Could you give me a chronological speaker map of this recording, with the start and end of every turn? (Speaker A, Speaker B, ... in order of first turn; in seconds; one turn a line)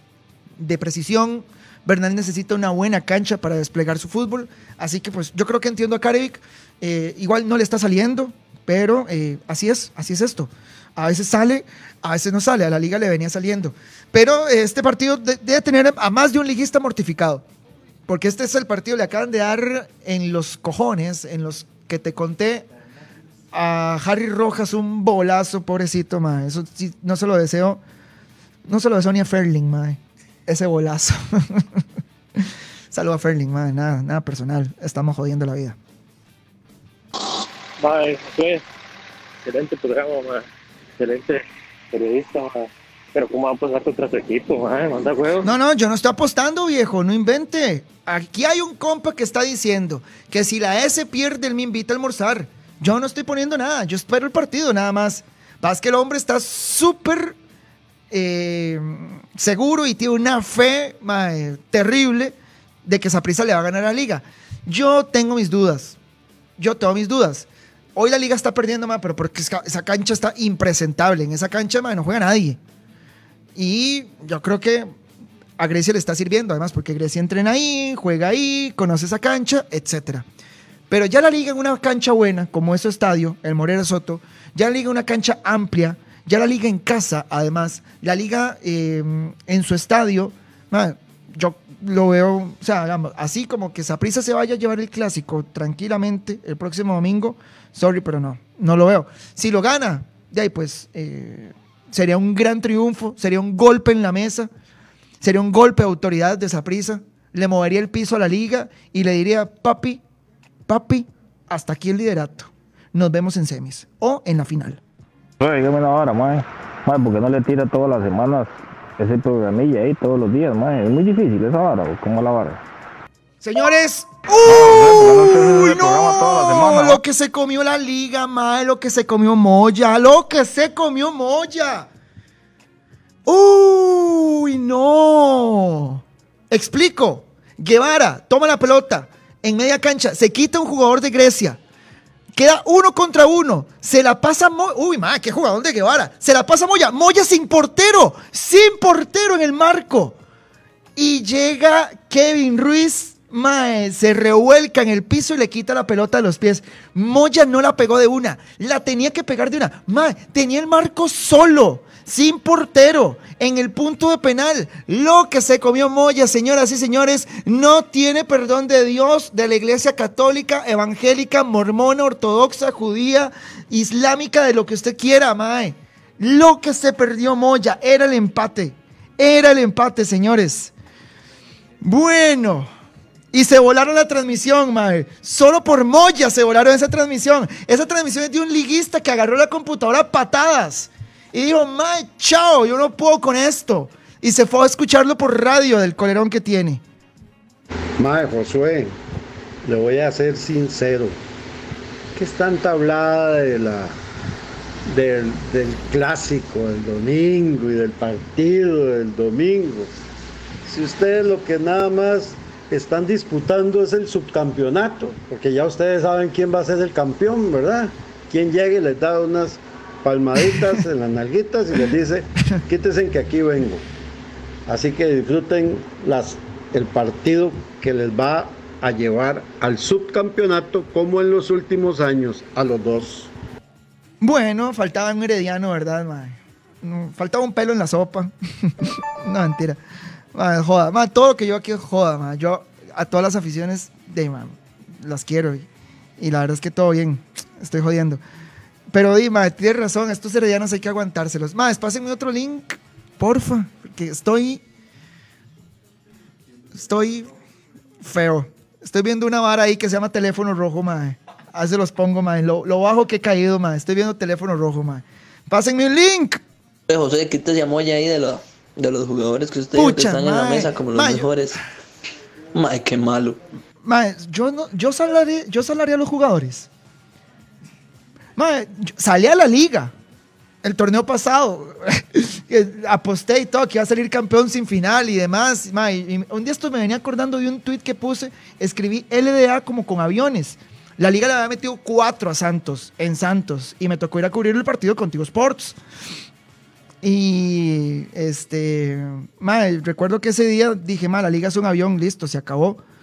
Speaker A: 0.6-17.4
Speaker A: 18.1-22.7
Speaker A: 23.5-27.8
Speaker A: 28.7-31.6
Speaker A: 32.9-35.8
Speaker B: 37.8-38.6
Speaker B: 39.5-40.5
Speaker B: 41.0-45.5
Speaker A: 45.4-57.4
Speaker A: 58.1-66.0
Speaker A: 66.6-72.6
Speaker A: 73.6-74.9
Speaker A: 75.6-80.2
Speaker A: 80.9-104.5
Speaker A: 105.2-110.0
Speaker A: 110.7-114.8
Speaker C: 115.4-122.6
Speaker A: 123.4-131.9
Speaker C: 124.4-127.0
Speaker A: 133.3-141.6
Speaker A: 142.4-150.2
Speaker A: 151.0-180.7
Speaker A: 181.8-182.7
Speaker A: 183.3-196.8
Speaker D: 198.0-198.9
Speaker D: 199.6-201.2
Speaker D: 202.2-203.9
Speaker D: 204.9-209.9
Speaker D: 210.7-223.8
Speaker D: 224.7-233.3
Speaker A: 234.2-239.8
Speaker A: 240.3-245.7
Speaker A: 246.2-248.2
Speaker A: 248.9-254.6
Speaker A: 256.8-257.3
Speaker A: 258.0-266.4
Speaker E: 266.9-271.6
Speaker A: 269.7-271.4
Speaker E: 272.5-273.4
Speaker A: 273.8-276.7
Speaker A: 278.4-279.9
Speaker A: 280.6-295.8
Speaker A: 297.0-302.8